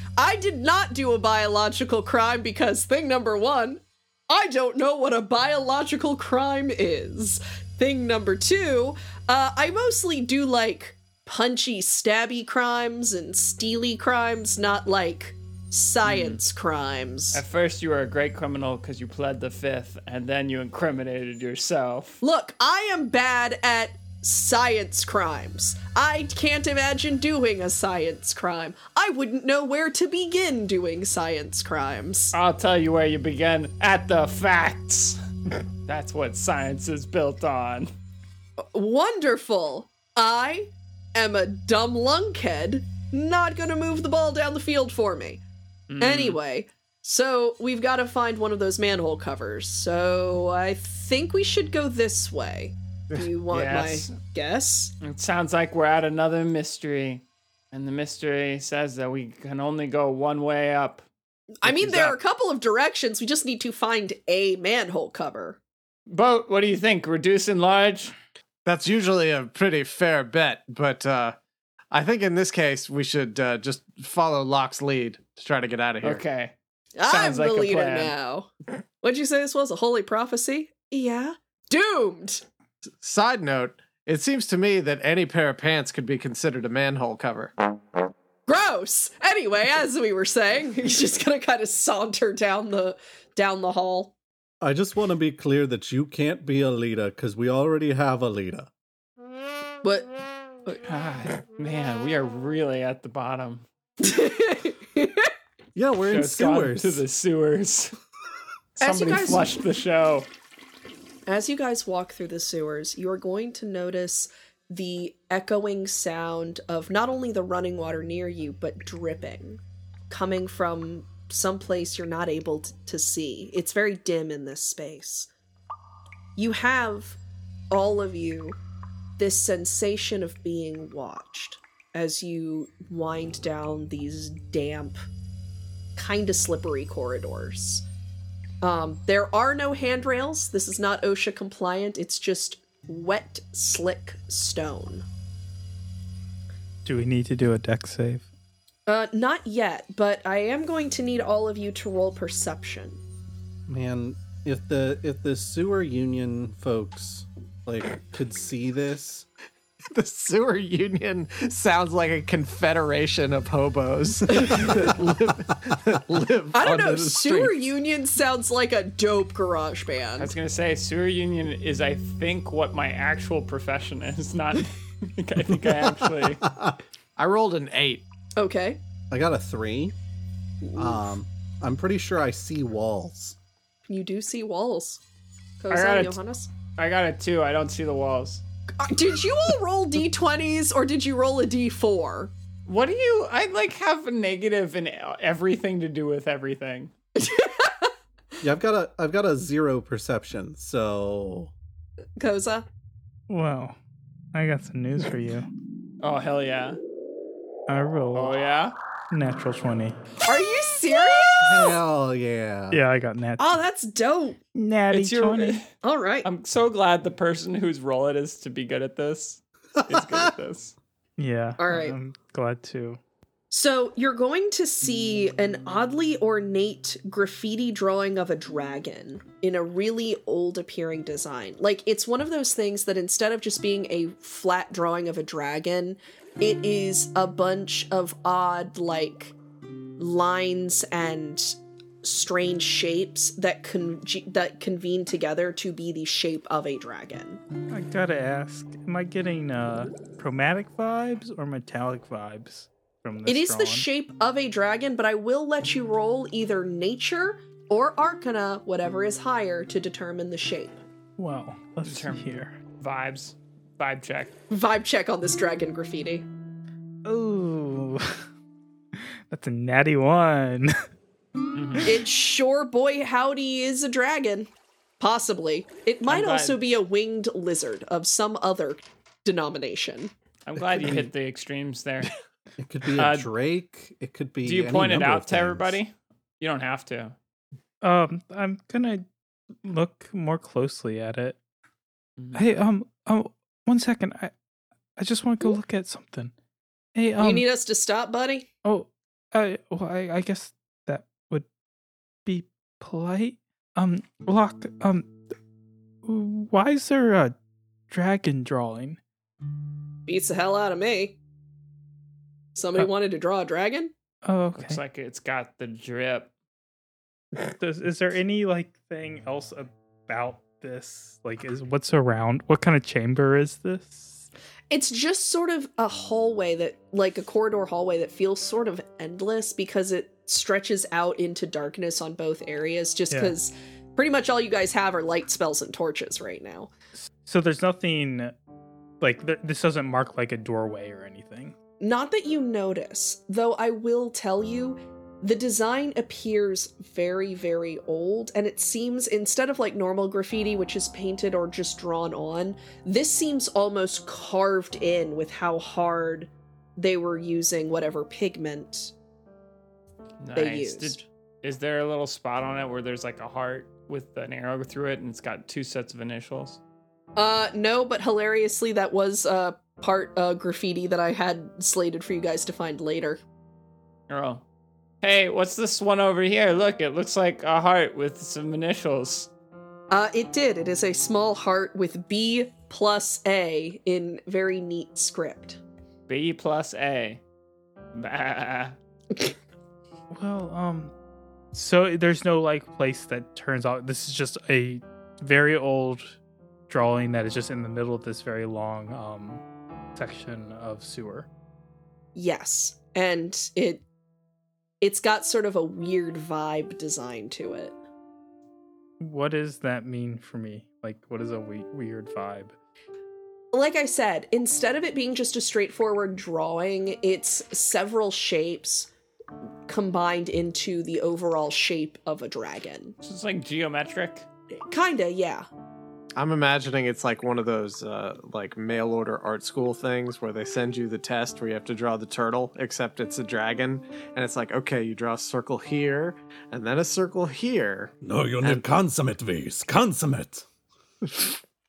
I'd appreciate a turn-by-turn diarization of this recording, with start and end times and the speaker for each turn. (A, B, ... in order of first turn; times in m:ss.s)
0:00.2-0:17.4 A
0:16.0-0:16.4 B
0:17.3-0:22.2 B
0:22.2-0:32.3 A
0:32.3-0:35.2 B
0:35.8-0:37.9 B
0:38.6-0:45.4 A
0:45.9-0:46.4 B
0:46.0-0:54.9 A
0:53.5-0:54.1 B
0:55.0-1:01.0 B
1:01.6-1:05.6 A
1:01.6-1:02.2 B
1:06.1-1:08.1 B
1:08.6-1:11.4 C
1:11.9-1:16.2 C
1:16.0-1:16.5 B
1:17.0-1:18.5 A
1:17.1-1:18.1 B
1:19.0-1:22.4 A
1:23.0-1:27.5 C
1:28.5-1:34.1 A
1:34.6-1:38.7 D
1:39.8-1:40.1 A
1:40.8-1:43.6 B
1:44.0-1:45.3 A
1:45.7-1:47.0 D
1:46.0-1:47.9 B
1:48.8-1:49.5 A
1:48.8-1:50.3 B
1:51.2-2:05.3 A
2:06.4-2:07.2 A
2:07.7-2:08.6 A
2:09.2-2:15.0 A
2:16.0-2:17.8 A
2:18.6-2:25.0 A
2:26.8-2:28.3 E
2:28.9-2:33.0 A
2:33.7-2:39.3 D
2:39.9-2:47.6 C
2:46.5-2:50.3 A
2:50.2-2:56.4 B
2:55.5-2:56.8 D
2:57.2-2:58.0 C
2:58.4-2:58.8 A
2:59.1-2:59.9 D
3:00.6-3:01.0 A
3:00.8-3:03.4 D
3:03.9-3:05.0 A
3:05.6-3:06.5 A
3:05.7-3:06.2 B
3:06.8-3:08.4 B
3:08.8-3:12.3 A
3:12.6-3:16.9 B
3:17.2-3:17.9 A
3:18.4-3:21.5 D
3:22.2-3:22.6 A
3:23.3-3:23.8 E
3:24.3-3:25.5 E
3:26.0-3:26.8 B
3:27.7-3:28.3 E
3:28.1-3:28.7 B
3:29.1-3:30.0 E
3:30.2-3:31.8 A
3:31.4-3:32.8 D
3:32.7-3:33.5 E
3:33.4-3:34.4 A
3:34.5-3:35.7 E
3:34.9-3:35.6 B
3:35.7-3:36.3 A
3:36.2-3:40.8 B
3:39.8-3:40.3 D
3:41.2-3:43.0 E
3:41.6-3:42.0 A
3:43.5-3:59.3 A
4:00.0-4:07.4 A
4:07.7-4:13.9 E
4:13.2-4:20.8 A
4:21.2-4:22.6 E
4:21.8-4:22.3 B
4:22.8-4:24.3 B
4:24.5-4:26.2 A
4:27.0-4:28.1 E
4:29.0-4:30.7 E
4:31.5-4:31.9 B
4:31.8-4:34.5 A
4:35.0-4:40.1 A
4:36.1-4:36.6 B
4:40.4-4:42.1 B
4:42.6-4:45.8 D
4:43.0-4:43.3 B
4:44.4-4:47.1 B
4:47.8-4:49.0 E
4:49.6-4:51.4 E
4:52.2-4:52.4 B
4:52.3-4:54.3 E
4:55.0-4:56.3 E
4:56.9-4:57.5 E
4:57.2-4:58.5 A
4:58.6-5:01.5 E
5:02.2-5:05.2 E
5:06.0-5:07.3 E
5:07.9-5:09.0 E
5:10.1-5:11.2 A
5:12.5-5:13.9 A
5:14.2-5:14.8 E
5:14.5-5:16.3 B
5:17.6-5:24.2 E
5:24.7-5:36.7 A
5:33.1-5:33.3 E
5:37.0-5:38.3 E
5:39.0-5:41.5 E
5:41.8-5:58.9 A
6:00.2-6:06.6 B
6:00.3-6:01.0 A
6:07.2-6:13.2 A
6:14.1-6:14.4 B
6:15.0-6:19.3 B
6:19.9-6:25.6 A
6:26.1-6:27.2 B
6:27.9-6:28.8 B
6:30.1-6:30.9 E
6:31.5-6:36.2 E
6:36.7-6:39.4 E
6:39.9-6:41.3 E
6:42.1-6:43.8 A
6:44.8-6:47.8 A
6:49.0-6:52.5 E
6:53.5-6:58.9 A
6:59.7-7:02.9 A
7:03.0-7:04.2 B
7:04.7-7:05.4 A
7:06.2-7:18.7 C
7:18.0-7:20.4 D
7:21.0-7:21.4 C